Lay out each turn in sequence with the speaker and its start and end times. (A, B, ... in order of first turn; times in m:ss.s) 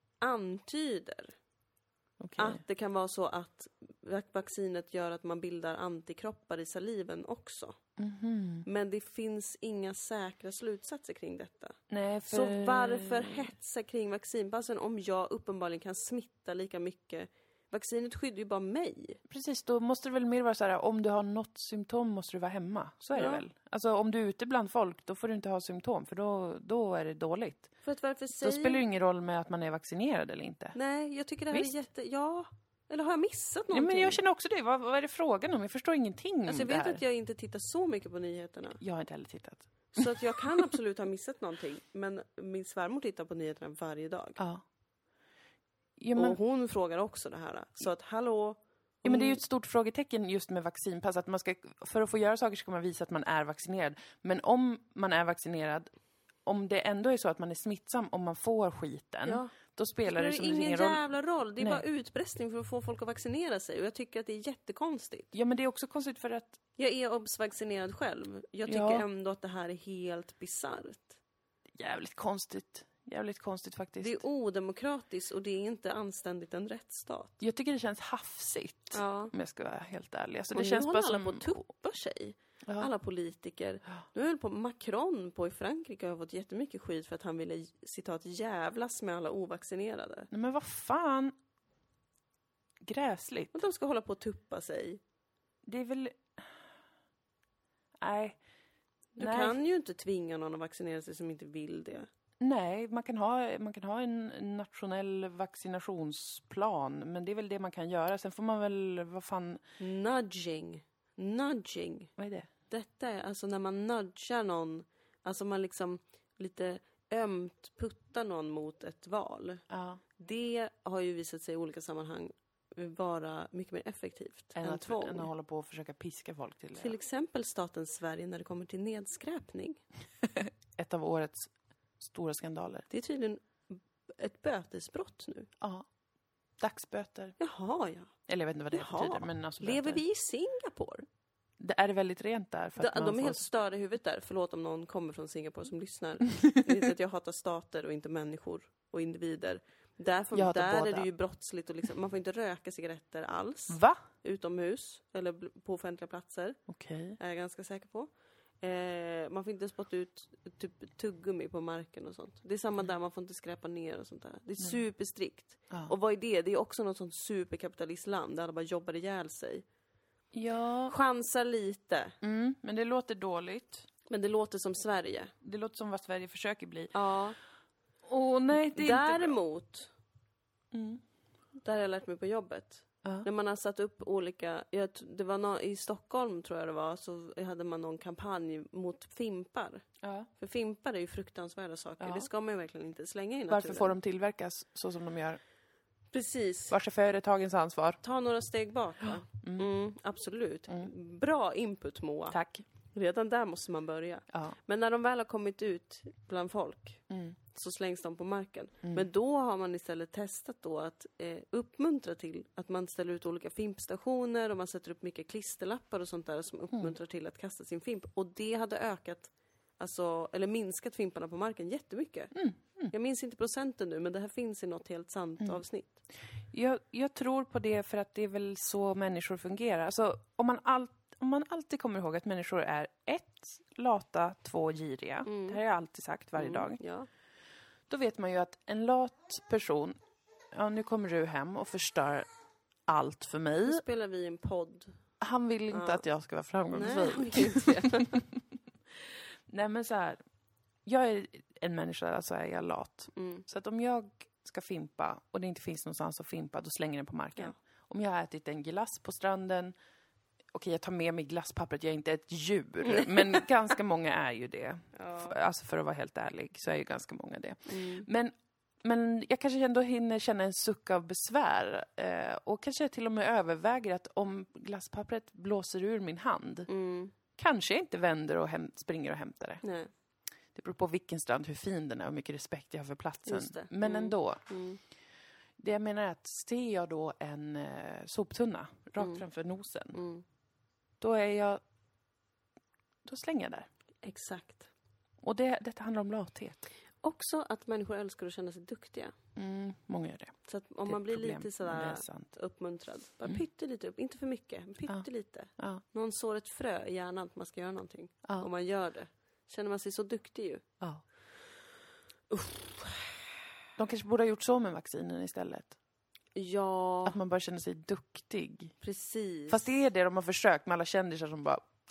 0:00.2-0:01.4 A
0:02.2-0:02.6 B
0:02.4-0:07.8 A
0:08.0-0:08.6 B
0:08.6-0:11.8 A
0:11.9-0:13.5 B
0:12.3-0:19.2 A
0:19.3-0:27.7 B
0:23.1-0:23.4 A
0:27.8-0:28.8 A
0:28.4-0:30.7 B
0:30.7-0:34.2 A
0:33.7-0:37.0 B
0:36.4-0:38.8 A
0:38.8-0:40.7 B
0:39.9-0:44.4 A
0:44.4-0:44.6 B
0:46.0-0:46.4 B
0:46.1-0:49.4 A
0:49.0-0:55.9 B
0:56.4-1:01.0 B
0:59.3-0:59.5 A
1:00.0-1:05.3 A
1:01.6-1:01.8 B
1:05.3-1:06.6 B
1:06.8-1:11.2 A
1:08.7-1:09.0 B
1:11.8-1:14.2 B
1:14.0-1:17.4 A
1:17.4-1:21.6 B
1:18.9-1:19.3 A
1:20.5-1:30.3 A
1:30.3-1:31.3 B
1:32.8-1:33.6 B
1:33.5-1:35.0 A
1:35.7-1:36.6 B
1:38.0-1:38.4 B
1:39.2-1:42.1 A
1:39.2-1:39.6 B
1:42.4-1:49.6 B
1:49.8-1:52.1 A
1:52.2-1:52.5 B
1:52.7-1:59.6 A
1:59.7-2:00.0 B
2:00.2-2:05.3 A
2:04.6-2:07.0 B
2:06.8-2:09.8 A
2:10.2-2:12.9 B
2:12.9-2:15.5 A
2:15.6-2:15.9 B
2:16.6-2:17.4 B
2:17.4-2:18.1 A
2:18.3-2:20.0 B
2:18.7-2:21.0 A
2:21.6-2:23.4 B
2:22.8-2:36.6 A
2:30.3-2:31.1 B
2:33.7-2:34.0 B
2:36.7-2:37.2 B
2:37.2-2:38.1 A
2:38.6-2:49.6 A
2:50.3-2:50.9 B
2:50.9-2:52.1 A
2:52.2-2:53.9 B
2:54.1-2:55.3 A
2:55.4-2:56.9 B
2:56.9-2:57.4 A
2:58.0-2:59.4 B
2:58.6-2:59.9 A
3:00.7-3:01.0 B
3:01.6-3:09.8 A
3:10.0-3:10.3 B
3:10.4-3:14.0 A
3:12.0-3:12.3 B
3:13.5-3:15.4 B
3:16.1-3:16.8 A
3:16.7-3:18.0 B
3:18.0-3:22.4 A
3:19.0-3:19.7 B
3:22.3-3:22.6 B
3:22.9-3:42.4 A
3:27.1-3:27.4 B
3:42.3-3:42.9 B
3:42.9-3:46.0 A
3:46.5-3:56.8 B
3:55.3-3:55.6 A
3:56.4-3:57.1 A
3:57.9-4:00.0 B
4:00.5-4:02.3 B
4:02.9-4:03.8 B
4:03.6-4:05.0 A
4:05.2-4:08.4 B
4:05.7-4:06.0 A
4:06.7-4:08.2 A
4:09.5-4:10.2 B
4:10.8-4:19.7 B
4:13.1-4:13.4 A
4:20.5-4:36.7 B
4:22.8-4:23.4 A
4:25.0-4:25.4 A
4:27.7-4:28.1 A
4:36.7-4:37.1 A
4:37.4-4:39.6 B
4:39.6-4:39.9 A
4:40.5-4:44.4 B
4:43.3-4:44.8 A
4:45.6-4:50.0 B
4:49.0-4:49.2 A
4:49.9-4:50.2 A
4:51.0-4:51.6 B
4:53.0-4:53.7 B
4:54.0-4:54.7 A
4:55.2-4:56.6 B
4:57.0-4:59.1 A
4:59.4-5:02.3 B
5:00.4-5:10.6 A
5:12.3-5:13.2 A
5:13.8-5:15.7 B
5:16.4-5:17.2 A
5:17.0-5:18.7 B
5:18.8-5:19.7 A
5:19.5-5:21.7 B